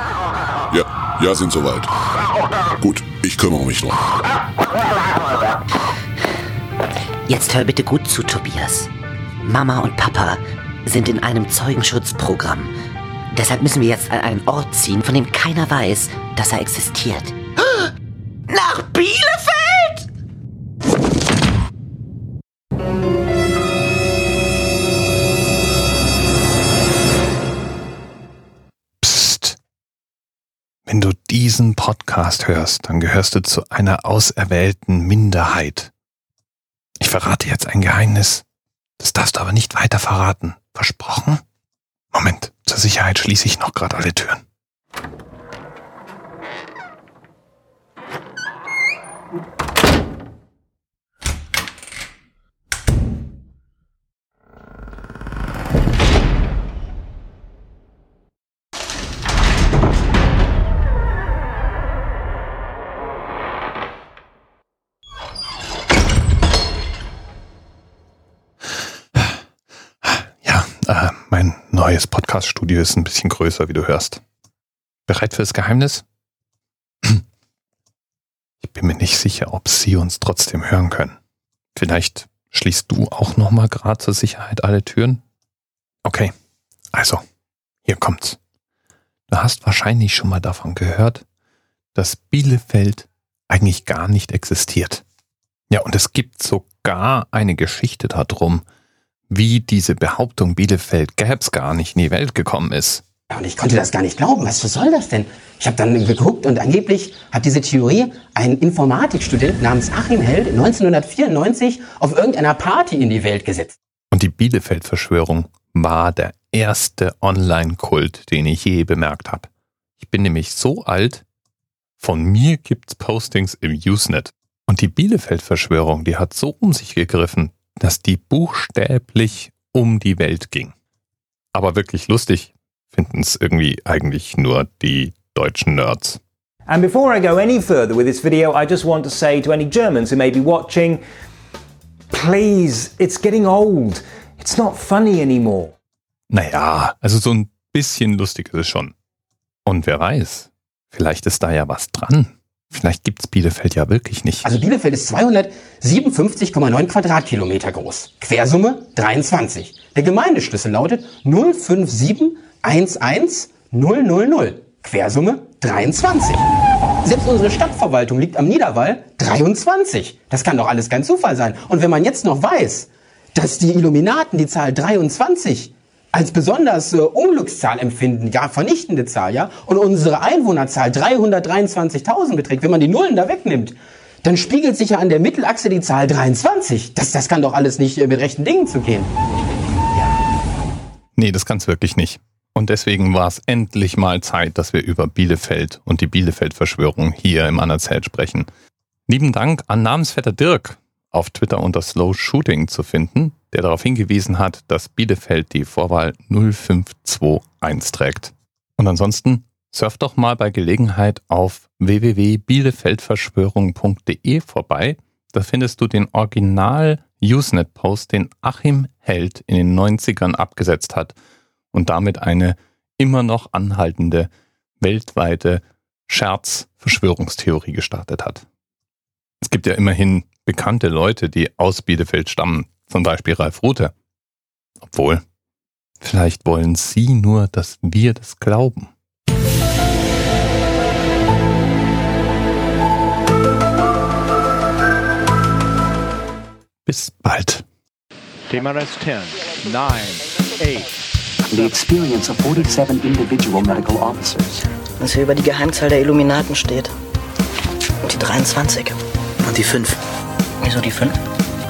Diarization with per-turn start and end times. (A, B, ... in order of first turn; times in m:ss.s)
0:00.7-0:01.9 A
0:02.8-0:03.9 A
0:07.3-0:08.9 B
0:09.4-0:12.7 B
0:13.3-0:17.4 B
0:18.5-0:20.0 B
0:29.0-0:29.6 C
0:30.9-0:35.9 C
0:37.0-0:38.4 C
0:39.0-0:41.4 C
0:42.1-0:44.4 C
1:10.0-1:14.2 C
1:15.1-1:16.0 C
1:18.6-1:21.2 C
1:21.8-1:25.2 C
1:26.0-1:26.3 C
1:26.9-1:27.2 C
1:27.9-1:28.4 C
1:29.3-1:31.2 C
1:32.0-1:35.0 C
1:35.7-1:38.6 C
1:39.3-1:43.0 C
1:43.3-1:53.8 D
1:54.1-2:01.2 C
2:02.0-2:10.7 C
2:11.5-2:16.2 C
2:16.7-2:21.0 E
2:22.1-2:25.7 E
2:26.3-2:28.9 C
2:29.7-2:34.5 C
2:34.4-2:46.5 D
2:47.0-3:09.1 D
3:11.2-3:18.5 C
3:19.1-3:41.2 C
3:41.7-3:44.3 C
3:44.8-3:48.4 C
3:49.4-3:53.9 C
3:54.8-3:55.2 C
3:56.0-3:58.9 C
4:06.9-4:07.6 C
4:08.5-4:10.9 F
4:11.4-4:14.7 G
4:15.0-4:17.0 H
4:18.0-4:20.0 H
4:20.6-4:21.2 H